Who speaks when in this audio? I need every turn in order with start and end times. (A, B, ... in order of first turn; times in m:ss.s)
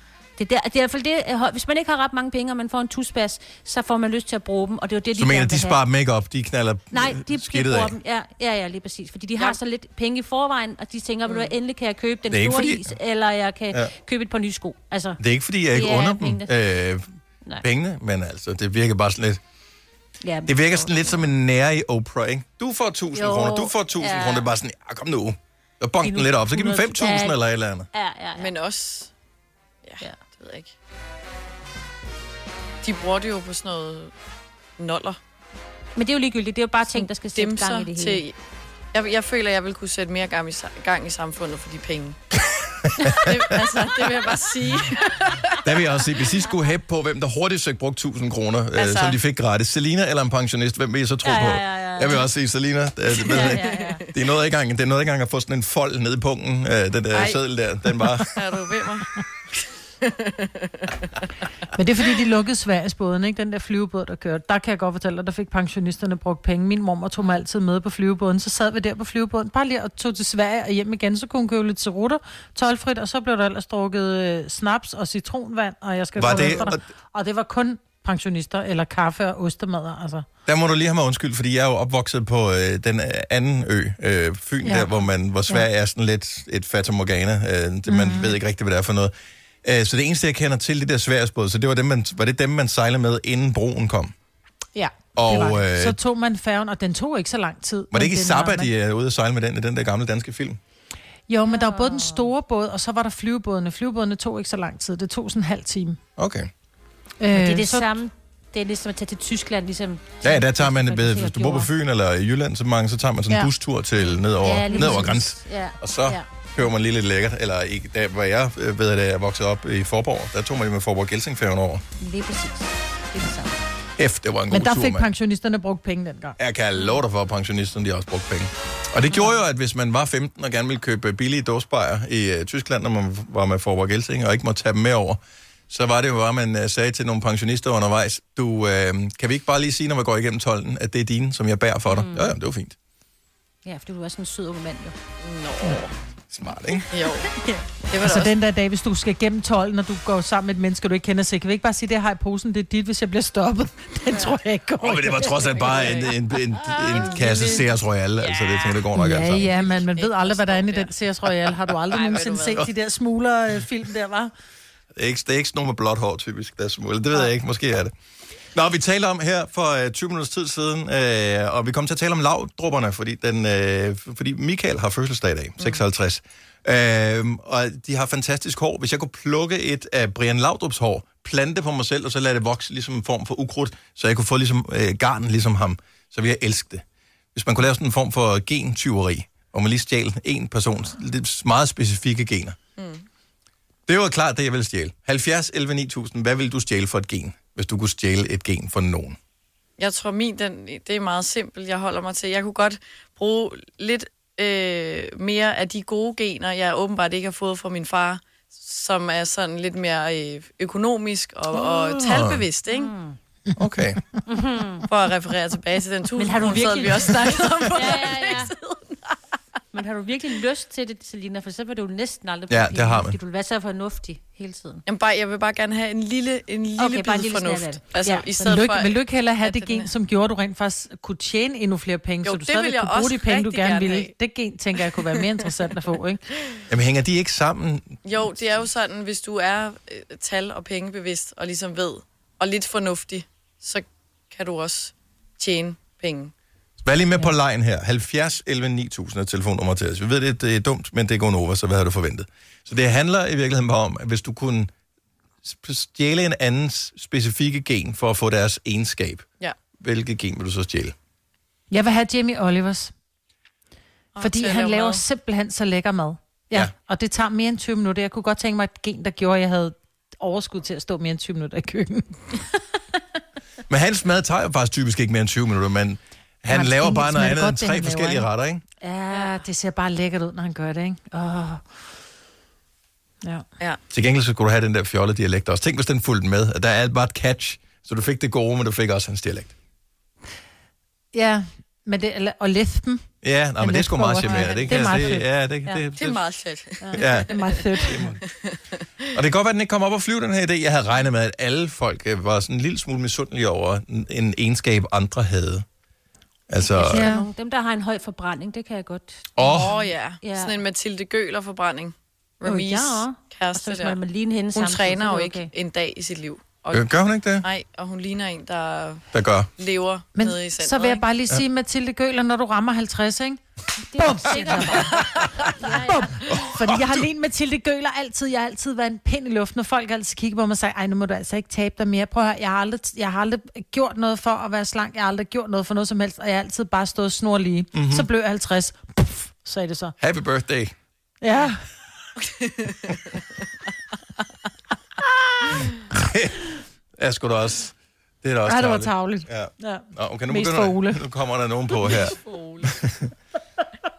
0:00.4-0:05.8 A
0:05.2-0:08.0 B
0:06.9-0:15.2 A
0:11.3-0:11.5 C
0:12.3-0:12.9 B
0:15.2-0:17.0 B
0:15.7-0:16.5 A
0:17.6-0:19.4 B
0:20.2-0:21.2 A
0:20.5-0:27.9 B
0:23.1-0:24.5 A
0:26.0-0:27.4 A
0:27.9-0:28.6 A
0:28.4-0:29.1 C
0:29.8-0:30.7 C
0:32.8-0:34.1 C
0:34.8-0:35.2 C
0:36.0-0:38.2 A
0:36.9-0:38.4 C
0:38.9-0:42.2 C
0:42.8-0:43.6 B
0:43.0-0:45.6 C
0:45.6-0:58.3 B
0:48.8-0:49.2 C
0:51.2-0:52.3 A
0:53.2-0:54.0 A
0:53.2-0:54.1 C
0:57.1-0:57.4 C
0:58.3-1:01.1 C
1:01.7-1:20.2 D
1:16.2-1:16.8 B
1:20.5-1:29.1 B
1:24.6-1:24.9 D
1:27.9-1:28.4 D
1:29.6-1:34.1 B
1:34.8-1:38.7 D
1:35.2-1:36.0 B
1:37.9-1:40.6 B
1:41.3-1:46.0 D
1:41.5-1:42.3 A
1:46.2-1:46.5 B
1:47.2-1:47.9 D
1:47.3-1:51.7 A
1:50.2-2:01.8 B
1:54.0-1:56.2 A
1:54.7-1:55.2 D
2:02.0-2:03.6 A
2:04.0-2:05.1 B
2:04.5-2:06.4 D
2:06.4-2:22.8 B
2:21.9-2:22.4 A
2:23.6-2:25.0 A
2:25.2-2:25.9 C
2:26.3-2:26.9 B
2:26.9-2:27.3 C
2:27.9-2:28.3 C
2:28.0-2:35.7 D
2:34.8-2:39.5 B
2:35.7-2:36.0 C
2:37.0-2:37.4 A
2:37.2-2:37.5 C
2:38.2-2:38.8 C
2:39.0-2:44.3 D
2:39.3-2:40.9 C
2:41.9-2:42.7 C
2:45.0-2:47.9 B
2:48.5-3:06.8 B
3:07.4-3:12.6 B
3:12.8-3:13.0 C
3:13.9-3:19.2 B
3:19.8-3:32.9 C
3:31.5-3:32.4 B
3:32.7-3:33.2 A
3:33.6-3:34.0 B
3:34.3-3:34.9 A
3:34.9-3:39.0 C
3:36.2-3:38.6 A
3:39.7-3:44.8 A
3:42.5-3:43.2 B
3:44.9-3:49.9 C
3:46.8-3:48.3 A
3:48.3-3:56.2 D
3:52.2-3:54.1 C
3:54.8-3:55.0 C
3:56.7-3:58.0 B
3:58.0-4:06.3 C
4:06.8-4:14.7 B
4:15.4-4:19.2 B
4:19.8-4:21.0 B
4:21.7-4:22.9 D
4:24.2-4:25.0 C
4:24.2-4:32.2 D
4:33.7-4:38.6 B
4:36.5-4:38.3 D
4:38.8-4:41.6 D
4:39.1-4:39.4 A
4:43.9-4:49.6 B
4:51.1-4:53.0 D
4:53.2-4:56.2 B
4:53.6-4:55.3 D
4:56.0-4:58.7 C
4:56.9-4:58.1 D
4:56.9-4:58.2 B
4:59.1-5:05.7 B
5:06.5-5:07.1 B
5:06.7-5:10.6 A
5:06.8-5:07.3 D
5:09.4-5:09.7 B
5:09.4-5:14.0 C
5:12.4-5:15.5 A
5:14.5-5:19.0 C
5:16.7-5:17.5 B
5:19.1-5:19.5 B
5:19.6-5:21.0 C
5:20.2-5:23.4 D
5:23.9-5:26.3 A
5:23.9-5:40.0 D
5:26.3-5:27.1 B
5:37.7-5:38.1 B
5:40.0-5:40.8 B
5:41.2-5:41.7 D
5:42.2-5:43.2 C
5:45.9-5:46.5 B
5:47.0-5:53.1 B
5:48.4-5:51.0 D
5:51.9-5:52.7 C